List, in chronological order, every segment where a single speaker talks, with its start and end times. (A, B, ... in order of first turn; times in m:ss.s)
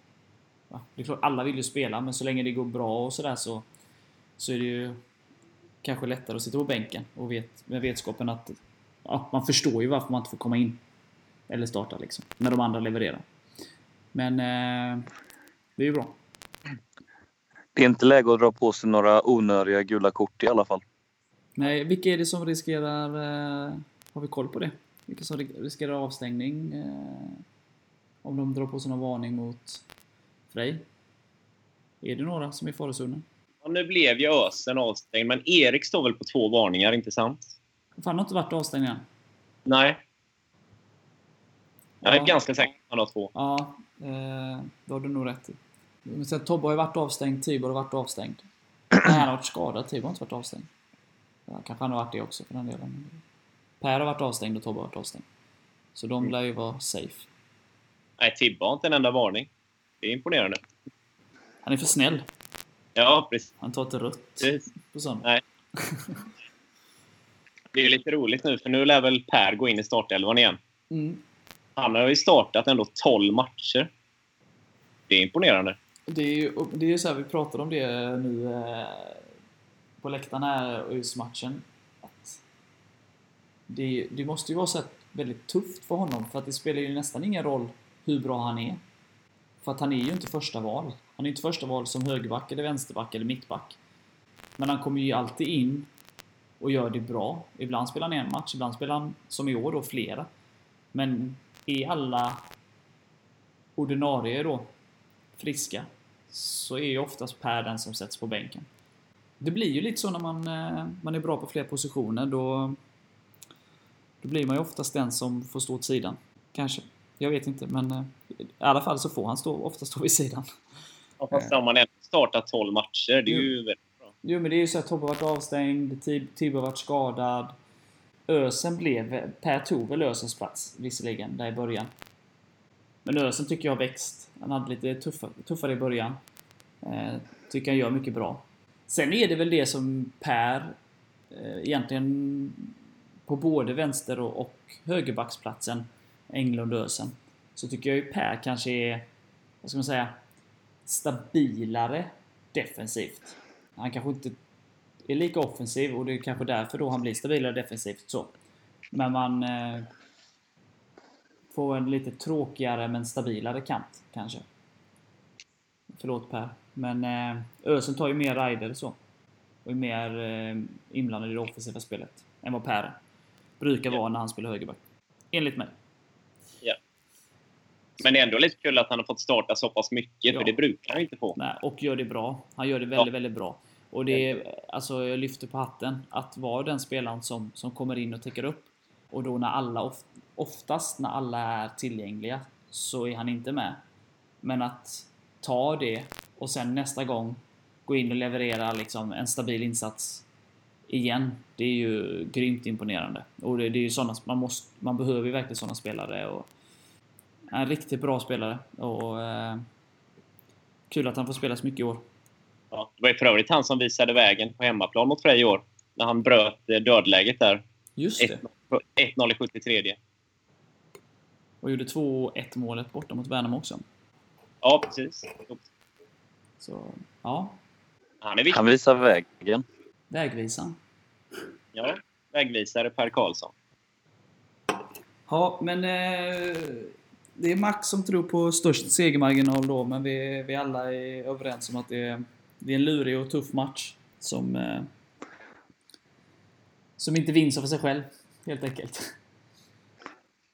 0:00.7-0:03.7 A
0:04.4-0:05.0 A
0:05.8-0:10.8 A
0:11.5-0:13.2 A
0:14.1-0:15.1 A
0:15.8-0:16.2 A
0:17.8-0:20.8 B
0:21.6-0:27.4 A
0:28.2-0:29.8 A
0:30.5-0:30.8 A
0:32.0-0:33.2 A
0:33.6-0:37.6 C
0:38.0-0:39.0 A
0:39.7-0:40.0 C
0:42.0-0:42.4 A
0:42.0-0:43.3 C
0:43.3-0:48.4 A
0:49.0-0:50.7 A
0:51.5-0:53.2 A
0:53.8-0:55.3 A
0:56.0-0:57.3 A
0:58.2-0:59.5 C
1:00.0-1:00.6 C
1:01.6-1:02.2 A
1:03.0-1:03.5 C
1:03.6-1:05.3 A
1:05.8-1:06.2 A
1:07.7-1:10.6 C
1:10.9-1:11.2 A
1:11.8-1:13.9 C
1:15.1-1:15.8 C
1:16.1-1:19.3 A
1:20.0-1:22.4 A
1:23.7-1:28.8 A
1:29.6-1:33.8 A
1:34.6-1:35.9 A
1:36.6-1:40.3 A
1:40.9-1:42.4 A
1:43.8-1:44.7 A
1:45.4-1:48.7 A
1:49.4-1:52.8 A
1:54.2-2:00.5 A
2:01.2-2:04.1 C
2:04.2-2:07.6 A
2:08.3-2:11.9 A
2:13.0-2:16.2 A
2:16.8-2:20.8 A
2:21.3-2:22.7 A
2:23.3-2:29.1 A
2:29.6-2:30.1 A
2:30.9-2:34.4 A
2:35.1-2:38.3 A
2:38.9-2:39.9 A
2:41.5-2:44.4 A
2:45.9-2:49.0 A
2:49.6-2:53.0 A
2:53.6-2:54.8 A
2:55.3-2:55.7 A
2:58.0-3:01.4 C
3:01.4-3:13.8 A
3:14.4-3:20.2 A
3:20.9-3:26.5 A
3:27.5-3:29.6 A
3:30.9-3:32.0 A
3:32.7-3:37.6 C
3:38.0-3:38.4 A
3:38.2-3:40.0 C
3:41.6-3:43.8 A
3:44.6-3:45.6 C
3:46.6-3:47.6 A
3:48.2-3:48.6 C
3:48.5-3:49.6 B
3:50.1-3:50.8 A
3:51.8-3:53.5 C
3:55.3-4:04.9 A
4:07.0-4:09.1 A